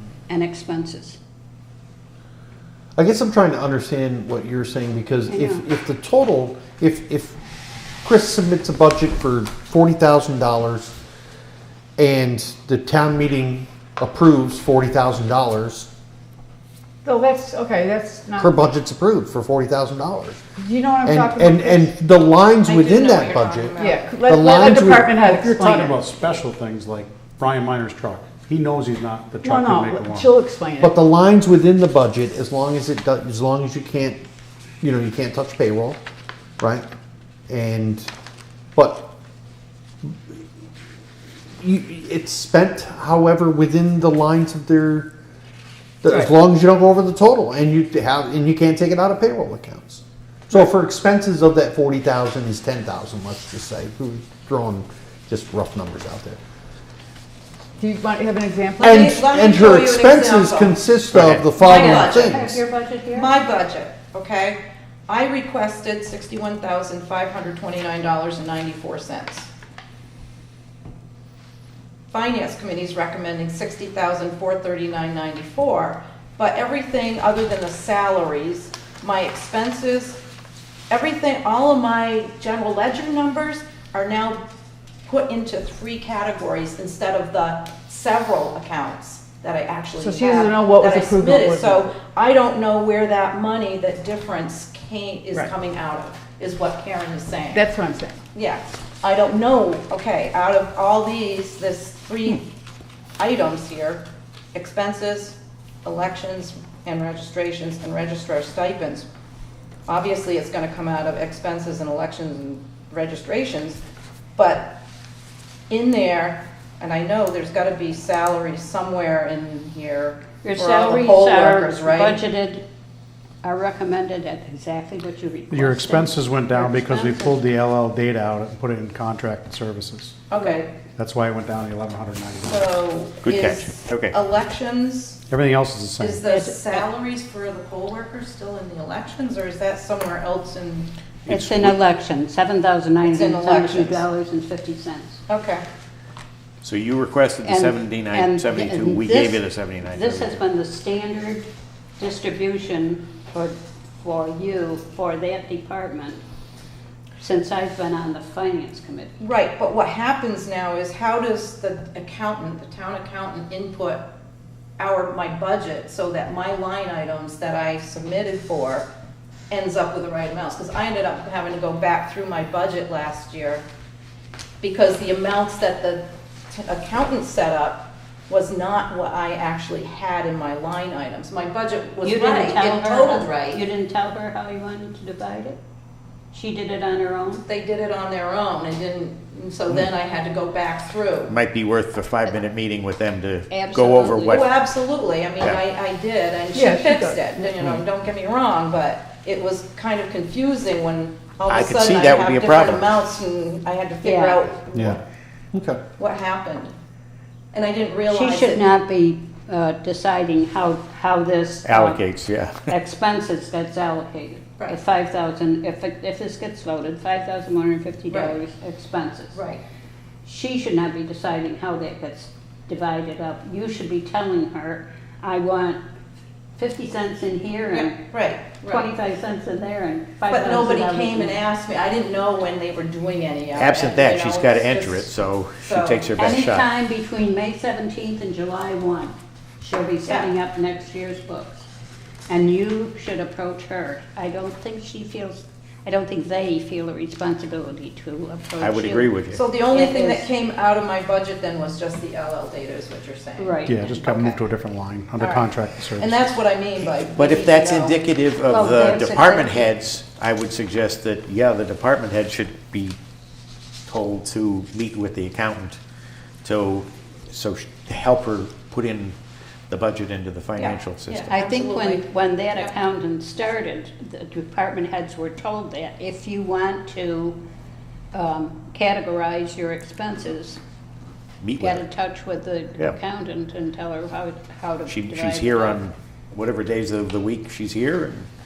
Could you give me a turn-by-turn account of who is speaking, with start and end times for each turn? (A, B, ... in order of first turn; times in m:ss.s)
0:00.3-0:01.2 A
0:03.0-0:07.4 B
0:05.3-0:05.6 A
0:08.0-0:10.9 B
0:12.0-0:15.9 B
0:17.0-0:18.5 C
0:18.4-0:20.4 B
0:20.6-0:21.9 C
0:21.0-0:23.7 B
0:22.6-0:24.1 D
0:23.8-0:26.0 C
0:24.2-0:25.3 B
0:25.2-0:30.4 E
0:29.4-0:31.0 C
0:30.8-0:34.2 B
0:34.8-0:36.0 B
0:36.6-0:36.8 B
0:37.5-0:38.1 B
0:38.7-0:39.0 B
0:41.6-0:45.1 B
0:46.0-0:56.4 B
0:57.8-0:59.2 C
0:58.8-1:00.8 D
0:58.8-1:02.6 B
1:01.1-1:01.5 F
1:01.5-1:02.6 D
1:01.6-1:03.3 A
1:03.1-1:09.5 D
1:12.1-1:20.2 D
1:20.9-1:24.5 D
1:25.0-1:37.6 D
1:30.0-1:31.9 C
1:37.5-1:38.2 C
1:38.3-1:42.5 D
1:43.2-1:49.1 D
1:49.9-1:53.8 D
1:54.4-1:54.8 D
1:55.7-2:02.2 D
2:00.4-2:02.6 A
2:03.4-2:07.4 A
2:05.5-2:10.2 E
2:10.3-2:10.7 D
2:10.4-2:10.6 A
2:11.0-2:12.8 E
2:12.4-2:15.2 D
2:13.2-2:14.2 F
2:15.3-2:16.3 E
2:16.0-2:20.9 D
2:16.3-2:16.8 A
2:21.2-2:25.2 A
2:21.3-2:21.8 F
2:23.0-2:24.0 D
2:25.3-2:25.6 D
2:26.6-2:30.4 F
2:27.4-2:36.2 A
2:37.2-2:39.1 A
2:39.2-2:44.1 D
2:44.8-2:48.9 D
2:49.5-2:53.6 D
2:54.6-3:03.6 D
3:02.0-3:05.6 A
3:06.3-3:07.4 A
3:07.4-3:11.4 D
3:11.3-3:14.4 F
3:13.5-3:14.4 A
3:14.1-3:25.0 D
3:16.5-3:17.4 C
3:21.5-3:23.0 F
3:24.0-3:24.4 A
3:24.7-3:25.0 B
3:25.5-3:25.8 B
3:26.0-3:26.7 D
3:27.5-3:28.7 D
3:28.1-3:32.0 A
3:31.6-3:32.7 F
3:32.7-3:39.4 A
3:38.1-3:38.4 D
3:39.3-3:39.6 D
3:40.2-3:45.8 A
3:46.6-3:48.0 A
3:47.7-3:48.9 D
3:48.6-3:51.4 A
3:50.3-3:56.1 D
3:53.5-3:56.6 F
3:56.2-4:01.7 A
4:00.0-4:00.3 D
4:02.3-4:10.3 A
4:08.6-4:09.4 F
4:09.3-4:13.6 D
4:13.4-4:14.4 A
4:13.6-4:16.3 E
4:15.2-4:18.1 D
4:17.1-4:23.0 F
4:18.4-4:19.7 A
4:23.8-4:25.8 F
4:26.4-4:29.2 F
4:29.7-4:31.3 F
4:30.6-4:32.7 D
4:31.3-4:37.4 A
4:38.1-4:40.6 A
4:41.4-4:41.9 F
4:41.6-4:45.8 A
4:44.9-4:48.3 F